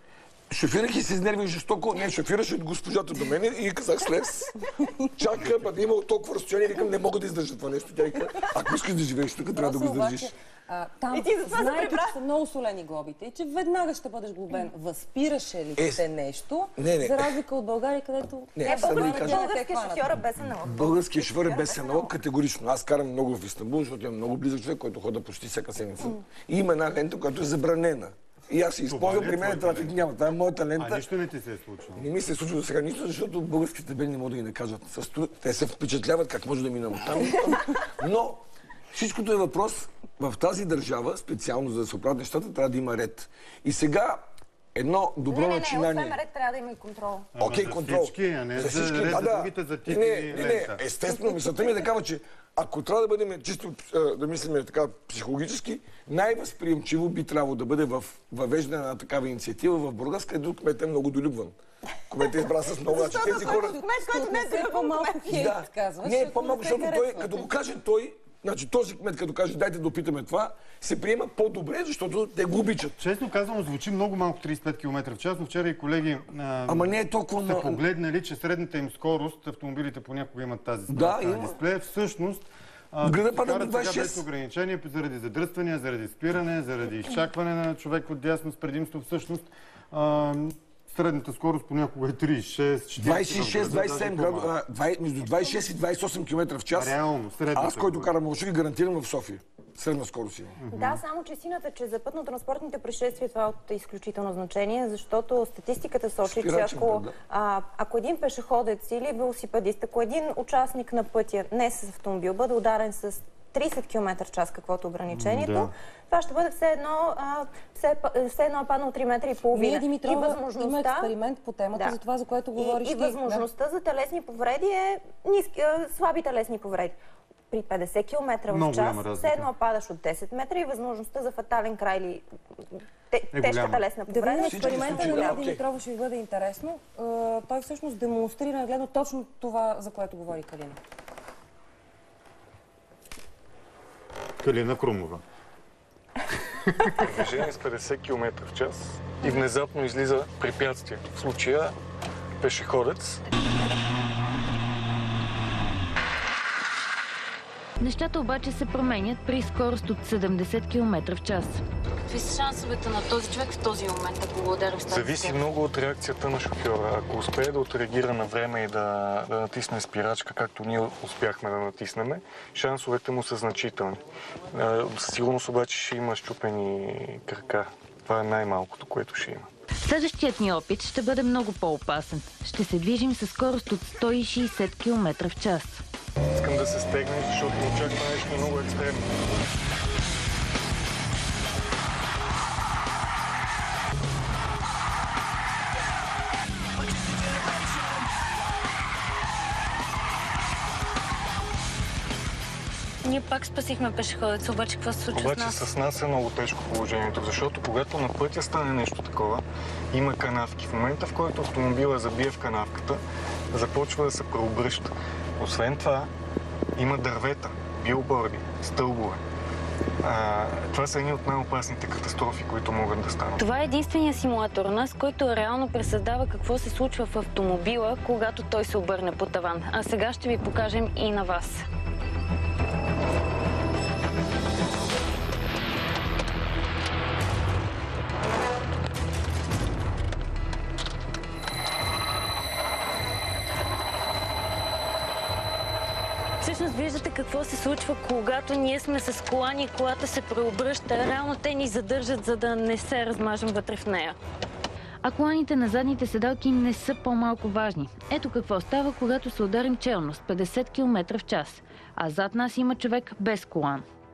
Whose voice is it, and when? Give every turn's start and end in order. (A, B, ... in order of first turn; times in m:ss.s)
0:00.5-0:04.5 A
0:05.1-0:10.3 A
0:09.5-0:20.1 B
0:11.1-0:12.2 C
0:15.8-0:16.0 A
0:16.8-0:17.3 A
0:18.5-0:19.5 A
0:18.6-0:22.1 C
0:20.6-0:31.1 A
0:28.8-0:29.9 D
0:30.8-0:32.1 D
0:32.0-0:46.2 A
0:45.2-0:47.3 C
0:47.3-0:50.8 D
0:47.4-1:01.6 A
1:02.1-1:03.8 A
1:02.3-1:05.6 C
1:03.0-1:07.5 B
1:05.3-1:13.0 A
1:13.0-1:34.5 D
1:16.7-1:17.8 A
1:20.9-1:21.6 A
1:23.0-1:24.2 A
1:33.0-1:37.0 A
1:36.7-1:38.1 D
1:37.5-1:40.6 A
1:40.6-1:41.0 D
1:40.7-2:01.2 C
1:46.2-1:47.2 A
1:55.1-1:55.7 D
1:59.5-2:03.4 B
2:01.7-2:02.0 C
2:02.6-2:07.0 C
2:07.5-2:12.2 C
2:08.5-2:09.5 D
2:13.1-2:15.5 C
2:13.3-2:13.8 D
2:14.1-2:20.8 B
2:14.4-2:15.6 A
2:24.4-2:25.2 D
2:26.7-2:27.1 D
2:27.0-2:31.8 E
2:32.4-2:33.2 E
2:37.8-2:41.6 F
2:42.1-2:45.3 G
2:44.9-2:59.5 E
2:59.8-3:05.8 F
3:06.3-3:09.1 E
3:23.0-3:25.6 G
3:25.1-3:36.1 E
3:36.8-3:39.2 E
3:40.0-3:43.5 E
3:43.4-3:51.6 G
4:06.4-4:14.2 G
4:15.0-4:23.8 F